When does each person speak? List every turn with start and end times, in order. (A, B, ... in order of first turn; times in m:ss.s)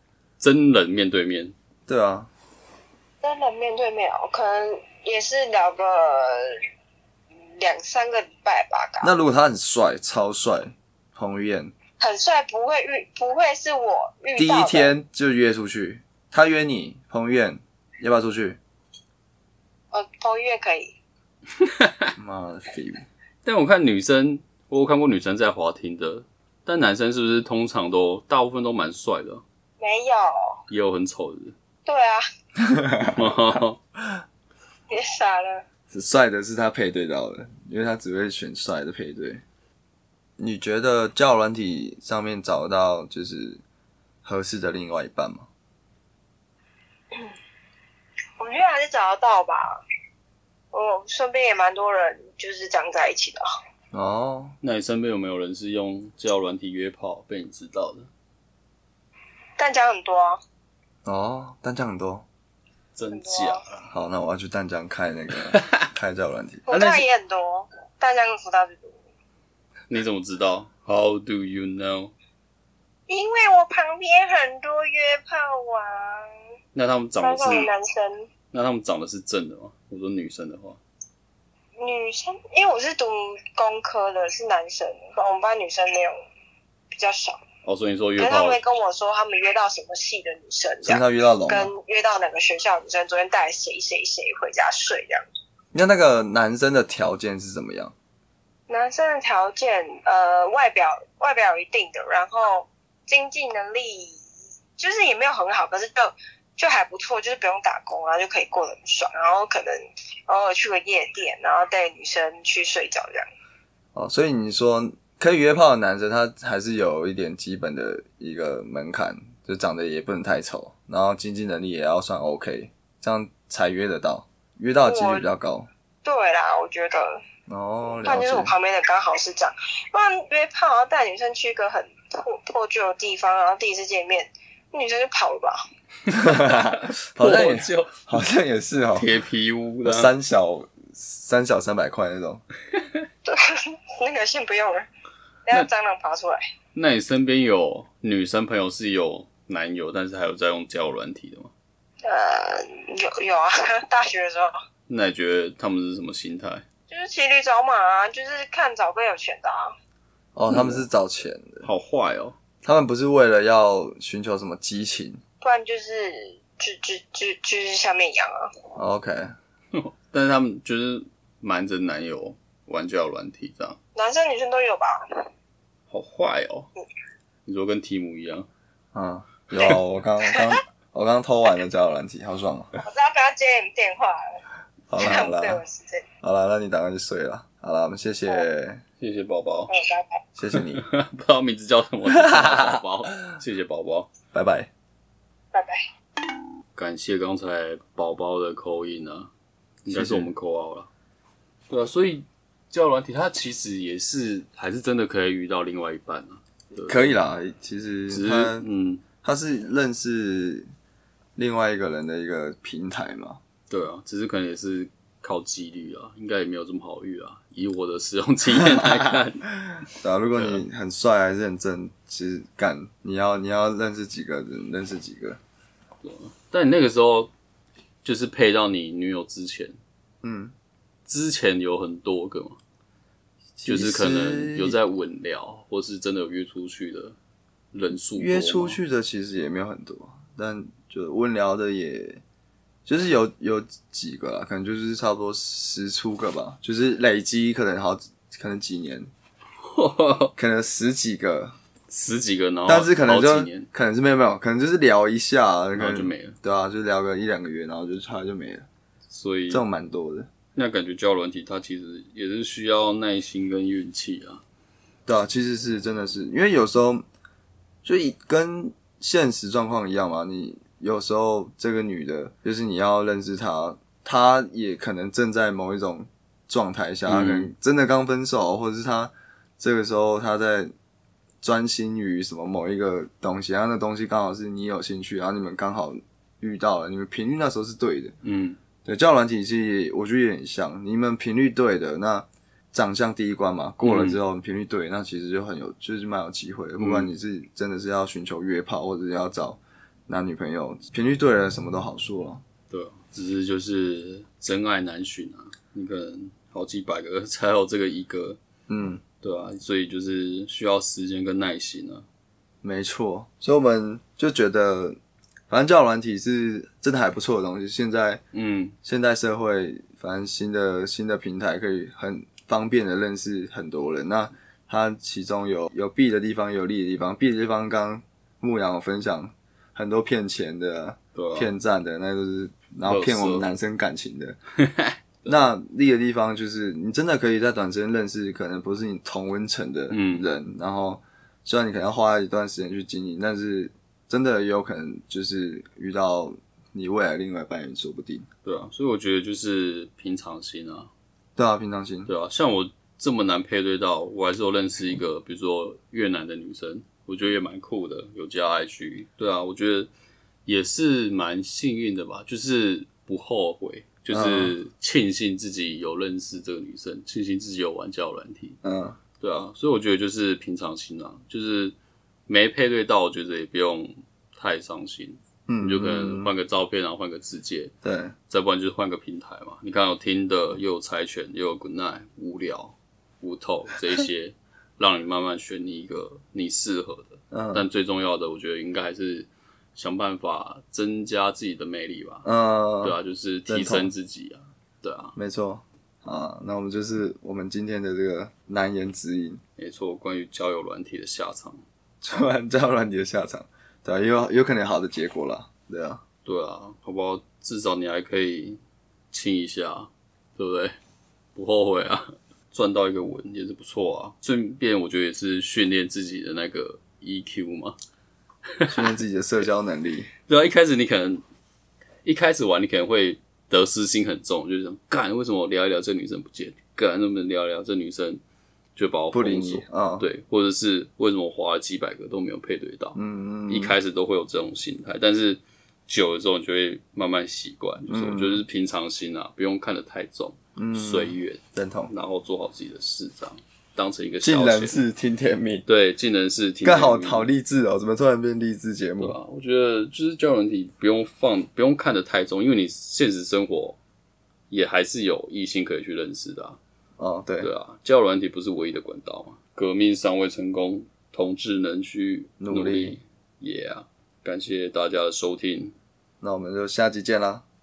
0:00.4-0:01.5 A
0:01.9-0:02.3 B
0:03.2-0:06.6 C
0:07.6-0:09.2 C
0:09.0-0:11.7 B
0:12.0-0:14.9 C
0:14.4-0:18.6 B
0:19.9-0:21.0 C
0:21.6-0:22.1 A
0:22.2-0:23.0 B
0:23.4-0:29.4 A
0:29.8-0:30.6 C
0:30.7-0:31.6 A
0:31.9-0:32.2 C
0:32.6-0:33.6 B
0:33.1-0:33.8 A
0:34.9-0:35.6 C
0:35.9-0:39.4 B
0:40.4-0:43.6 B
0:44.2-0:45.5 B
0:48.4-0:49.8 C
0:50.7-0:53.4 C
0:53.9-0:54.6 B
0:54.6-0:58.1 A
0:59.6-1:00.4 C
1:01.1-1:02.3 B
1:03.0-1:03.9 A
1:03.1-1:03.6 C
1:03.9-1:06.6 B
1:05.5-1:05.9 A
1:06.7-1:09.0 C
1:06.7-1:07.0 A
1:09.9-1:12.1 A
1:13.1-1:16.3 C
1:16.8-1:17.7 A
1:17.2-1:18.3 C
1:18.5-1:20.8 A
1:21.8-1:26.2 C
1:26.9-1:27.4 C
1:27.6-1:28.6 A
1:28.2-1:35.2 C
1:30.8-1:31.7 B
1:35.7-1:37.9 B
1:38.7-1:44.2 C
1:44.8-1:53.3 C
1:54.0-2:05.7 B
2:04.8-2:05.3 C
2:06.0-2:07.2 C
2:07.5-2:08.5 B
2:08.0-2:15.6 C
2:16.1-2:18.0 A
2:16.1-2:19.1 B
2:19.0-2:20.1 A
2:19.8-2:22.4 B
2:23.3-2:24.9 C
2:25.5-2:26.5 C
2:26.8-2:31.5 A
2:32.0-2:34.5 C
2:34.9-2:36.6 A
2:36.9-2:39.8 C
2:40.4-2:41.7 B
2:40.5-2:40.8 A
2:41.6-2:42.4 A
2:42.6-2:45.2 B
2:45.4-2:48.6 C
2:48.8-2:49.3 B
2:49.7-2:53.8 A
2:54.0-2:55.3 C
2:55.9-2:56.7 A
2:57.5-2:58.5 A
2:58.9-3:02.7 B
3:00.3-3:00.5 C
3:02.8-3:04.4 C
3:04.9-3:05.6 B
3:05.0-3:06.1 C
3:06.2-3:08.8 B
3:09.0-3:09.7 A
3:09.7-3:10.2 C
3:10.4-3:10.9 B
3:10.5-3:14.1 A
3:12.1-3:12.8 B
3:14.3-3:14.7 B
3:15.5-3:15.9 C
3:16.8-3:19.3 A
3:19.8-3:20.9 A
3:19.9-3:20.3 B
3:21.7-3:27.2 A
3:26.9-3:28.7 B
3:28.1-3:29.0 A
3:29.2-3:30.7 B
3:31.4-3:33.4 B
3:33.7-3:39.5 A
3:38.6-3:45.4 B
3:46.0-3:47.3 A
3:48.0-3:49.8 A
3:50.2-3:50.5 B
3:51.1-3:52.6 A
3:53.6-3:54.8 B
3:53.7-3:57.2 A
3:57.7-3:58.8 A
3:58.2-4:02.2 B
4:02.9-4:09.1 B
4:09.6-4:10.3 A
4:10.4-4:11.6 B
4:11.9-4:13.7 A
4:12.7-4:18.7 B
4:15.8-4:16.4 A
4:19.1-4:19.6 A
4:19.5-4:20.3 B
4:20.5-4:24.4 A
4:25.1-4:27.1 B
4:27.8-4:40.7 B
4:37.1-4:37.5 A
4:41.4-4:48.2 B
4:48.2-4:48.6 A
4:48.8-5:02.4 B
4:53.8-4:54.2 A
4:56.8-4:57.1 A
5:02.7-5:08.4 A
5:08.7-5:09.0 B
5:09.2-5:12.0 A
5:12.6-5:15.0 B
5:15.5-5:18.2 B
5:18.3-5:18.8 A
5:18.8-5:34.4 B
5:31.2-5:31.5 A
5:32.9-5:33.5 A
5:34.6-5:35.4 A
5:35.3-5:48.3 B
5:39.9-5:40.3 A
5:48.4-5:50.9 A
5:51.4-5:52.1 B
5:52.1-5:59.9 A
6:00.5-6:08.6 A
6:04.1-6:04.6 B
6:08.6-6:09.0 B
6:09.2-6:11.8 A
6:12.3-6:17.7 A
6:15.5-6:16.3 B
6:17.8-6:18.2 B
6:18.3-6:32.3 A
6:27.3-6:27.7 B
6:32.2-6:33.9 B
6:32.8-6:35.2 A
6:35.2-6:39.4 B
6:39.6-6:41.6 A
6:42.0-6:46.0 B
6:46.2-6:48.6 A
6:49.1-6:50.8 A
6:51.4-6:57.8 A
6:58.6-6:58.9 A
6:58.7-7:00.1 B
7:00.3-7:01.2 A
7:02.0-7:08.2 A
7:08.8-7:24.8 A
7:09.1-7:10.1 B
7:13.0-7:13.8 B
7:17.9-7:18.4 B
7:20.6-7:21.9 B
7:24.2-7:25.6 B
7:25.7-7:27.3 A
7:26.6-7:29.2 B
7:29.0-7:33.8 A
7:34.5-7:36.6 A
7:37.0-7:37.5 B
7:37.4-7:45.7 A
7:42.4-7:43.0 B
7:46.2-7:47.4 B